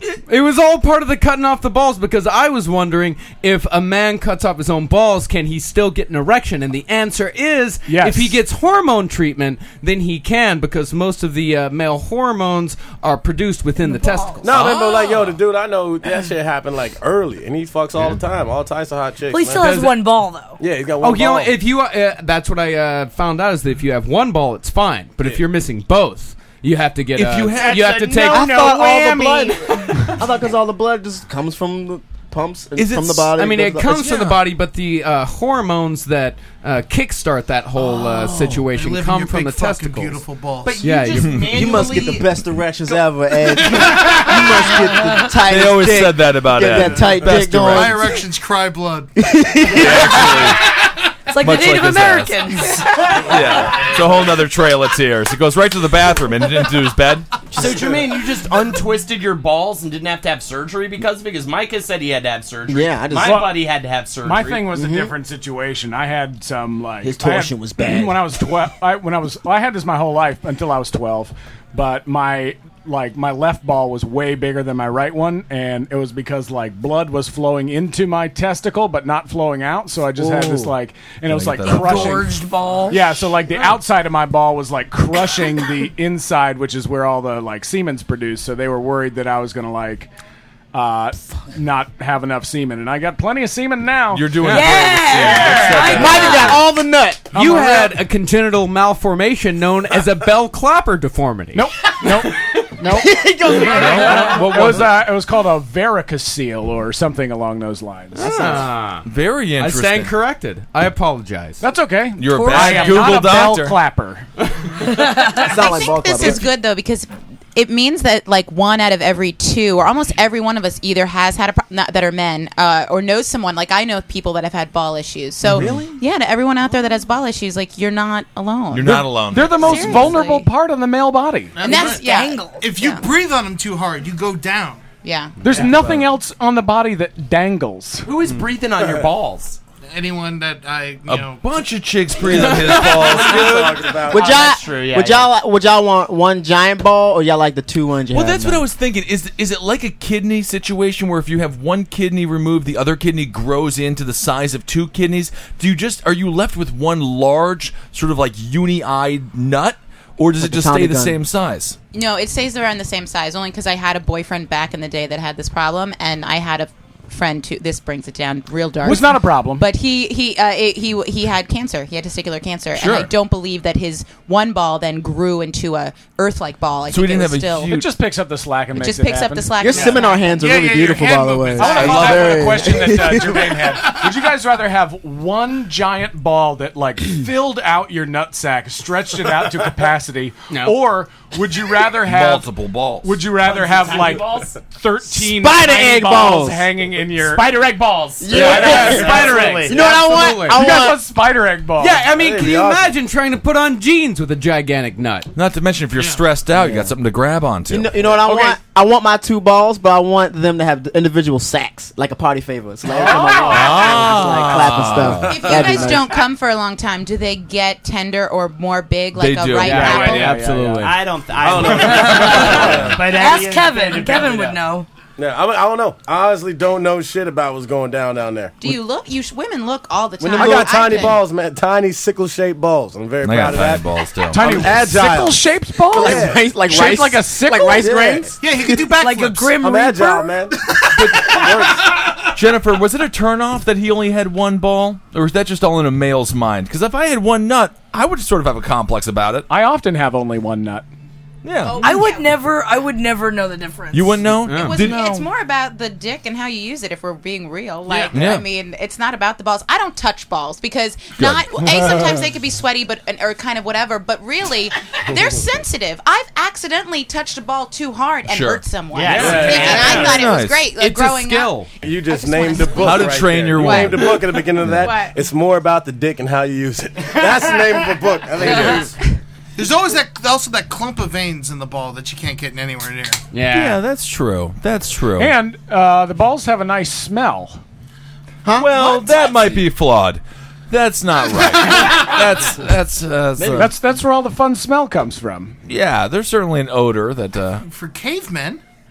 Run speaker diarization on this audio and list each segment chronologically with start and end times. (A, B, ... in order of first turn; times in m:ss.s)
0:00.2-0:14.5 A
0:07.8-0:08.4 B
0:13.8-0:14.4 C
0:14.4-0:19.9 D
0:14.5-0:15.3 E
0:19.3-0:20.6 C
0:19.6-0:19.9 A
0:20.6-0:21.6 D
0:21.0-0:28.5 A
0:27.2-0:28.3 E
0:27.6-0:28.3 F
0:28.2-0:34.0 G
0:28.3-0:29.2 B
0:32.8-0:33.3 E
0:33.4-0:40.2 A
0:33.9-0:34.3 E
0:37.8-0:40.8 H
0:40.6-0:43.0 F
0:40.8-0:41.4 A
0:41.1-0:41.5 E
0:41.4-0:48.2 G
0:43.9-0:44.5 H
0:45.4-0:48.0 E
0:47.0-0:49.1 H
0:49.2-0:50.6 G
0:49.7-0:50.7 E
0:51.3-0:53.1 C
0:51.4-0:52.5 E
0:53.2-0:57.3 E
0:57.5-1:04.7 F
0:57.5-0:58.0 G
1:02.7-1:03.5 G
1:03.1-1:30.1 B
1:04.7-1:05.1 G
1:07.0-1:08.2 G
1:20.2-1:20.7 G
1:21.3-1:22.3 E
1:21.6-1:23.0 C
1:30.7-1:34.5 B
1:34.1-1:36.7 E
1:34.4-1:36.0 A
1:34.4-1:36.6 C
1:35.1-1:36.0 B
1:35.8-1:37.9 G
1:37.3-1:41.7 A
1:41.5-1:48.4 B
1:42.8-1:44.6 G
1:43.7-1:45.1 E
1:43.8-1:44.8 A
1:48.1-1:49.0 A
1:48.3-1:50.2 E
1:49.6-1:51.6 A
1:51.6-1:54.3 B
1:52.2-1:53.8 E
1:52.3-1:53.2 C
1:54.9-1:55.4 C
1:55.3-2:10.5 I
1:55.4-1:56.5 G
2:05.4-2:05.9 E
2:08.7-2:10.2 E
2:08.8-2:11.6 B
2:11.5-2:14.8 H
2:11.6-2:13.0 I
2:11.8-2:12.6 C
2:15.0-2:15.4 I
2:15.4-2:18.1 B
2:18.0-2:19.6 F
2:19.9-2:21.4 H
2:21.1-2:23.9 E
2:22.3-2:24.5 D
2:22.6-2:23.1 F
2:24.0-2:25.3 F
2:24.1-2:28.7 G
2:28.1-2:41.8 E
2:40.4-2:41.2 G
2:41.9-2:57.8 I
2:48.8-2:49.6 B
2:52.7-2:53.1 E
2:56.9-2:57.9 E
2:57.6-2:59.6 B
2:58.7-3:00.3 I
2:59.6-3:03.7 G
2:59.7-3:02.2 H
3:01.6-3:17.5 B
3:01.7-3:02.6 E
3:03.8-3:04.2 H
3:10.5-3:10.8 F
3:11.9-3:13.2 E
3:13.4-3:14.7 F
3:15.1-3:16.7 G
3:17.1-3:20.2 F
3:18.2-3:21.0 G
3:18.3-3:22.0 B
3:18.3-3:20.7 A
3:21.8-3:25.3 A
3:22.0-3:23.0 D
3:25.3-3:27.9 E
3:25.9-3:26.2 H
3:26.5-3:26.9 G
3:27.7-3:36.2 G
3:32.9-3:34.1 B
3:33.4-3:35.8 E
3:35.1-3:40.4 I
3:39.1-3:39.9 E
3:39.6-3:41.0 B
3:39.6-3:41.0 A
3:40.8-3:44.6 F
3:41.4-3:43.0 D
3:41.8-3:44.9 C
3:42.0-3:42.5 B
3:45.2-3:48.5 D
3:48.6-3:51.2 I
3:50.2-3:56.4 D
3:50.2-3:50.7 G
3:53.2-3:54.4 E
3:54.3-3:58.3 B
3:55.9-3:58.9 G
3:58.4-3:59.6 H
3:59.0-4:00.4 C
3:59.5-4:01.9 D
4:02.3-4:09.5 E
4:09.5-4:10.8 B
4:11.4-4:11.9 E
4:11.6-4:12.3 I
4:11.8-4:14.3 C
4:13.9-4:15.2 E
4:14.4-4:14.8 A
4:14.5-4:31.6 I
4:17.9-4:18.2 H
4:18.1-4:18.4 E
4:21.2-4:21.6 E
4:28.3-4:28.6 E
4:28.9-4:30.1 F
4:29.1-4:30.2 A
4:29.1-4:30.1 D
4:29.9-4:30.7 E
4:30.8-4:31.7 A
4:31.8-4:38.9 D
4:32.2-4:32.8 I
4:32.7-4:34.9 E
4:33.5-4:34.2 I
4:34.8-4:35.2 I
4:39.6-4:43.2 H
4:43.3-4:43.8 A
4:43.5-4:45.3 E
4:45.2-4:47.6 B
4:48.4-4:49.3 G
4:48.5-4:53.7 E
4:51.4-4:52.4 H
4:53.4-4:53.7 G
4:53.5-4:55.6 B
4:55.7-4:57.6 E
4:57.6-4:58.6 H